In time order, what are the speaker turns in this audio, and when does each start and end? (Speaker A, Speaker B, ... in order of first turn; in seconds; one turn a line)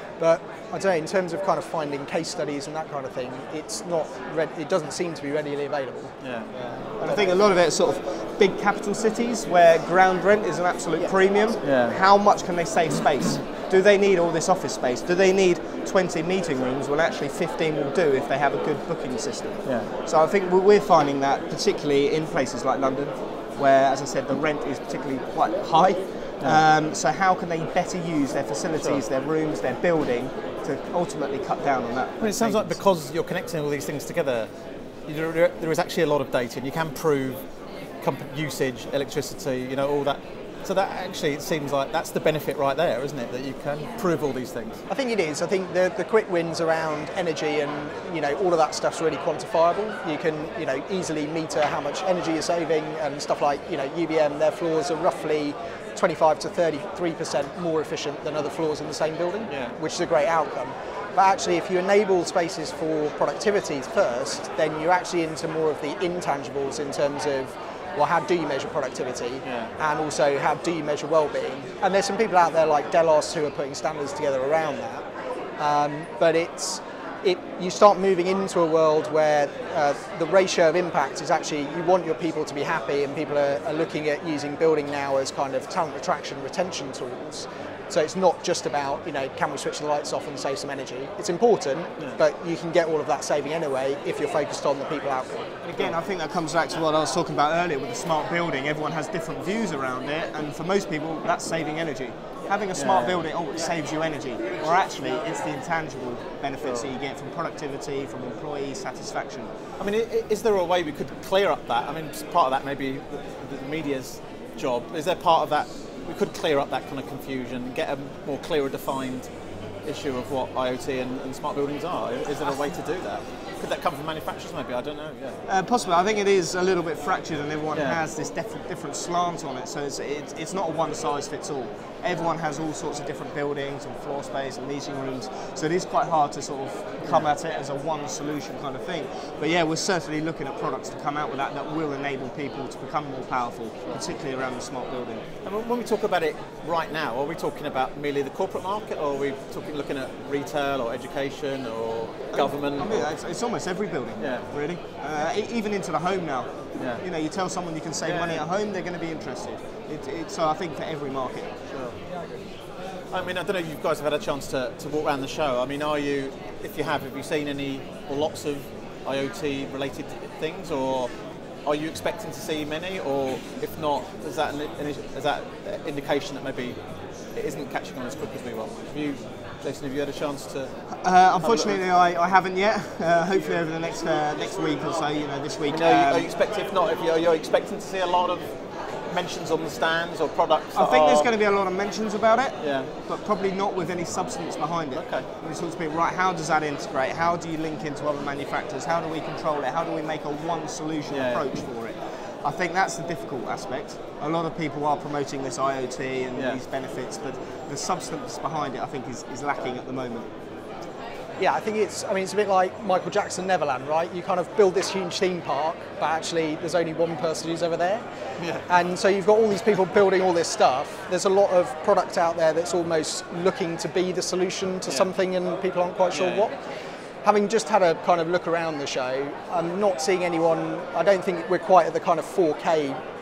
Speaker A: 0.2-7.4
Speaker B: 6.2-6.5
Speaker C: 7.0-32.8
Speaker B: 11.6-12.0
Speaker B: 19.6-19.9
Speaker B: 28.8-29.0
Speaker B: 32.2-34.5
Speaker B: 35.1-37.4
Speaker B: 38.0-44.8
Speaker A: 44.9-75.0
Speaker B: 59.5-59.8
Speaker B: 69.4-69.7
Speaker A: 75.6-95.6
Speaker C: 95.6-109.5
Speaker B: 102.7-103.2
Speaker B: 106.6-106.9
Speaker B: 109.8-119.3
Speaker B: 119.8-125.4
Speaker C: 125.5-145.2
Speaker B: 127.7-128.0
Speaker B: 145.4-153.1
Speaker C: 152.3-161.6
Speaker B: 154.2-154.5
Speaker B: 158.0-158.4
Speaker B: 161.7-161.9
Speaker B: 163.1-171.1
Speaker B: 171.6-176.8
Speaker B: 177.3-180.7
Speaker C: 180.9-186.3
Speaker B: 181.4-181.8
Speaker B: 185.7-188.5
Speaker B: 189.1-191.3
Speaker C: 190.7-210.3
Speaker B: 192.6-192.9
Speaker B: 194.9-195.3
Speaker B: 201.1-201.5
Speaker B: 206.3-206.6
Speaker A: 211.4-218.0
Speaker B: 218.4-218.7
Speaker A: 218.7-226.5
Speaker B: 226.1-226.4
Speaker A: 227.2-233.0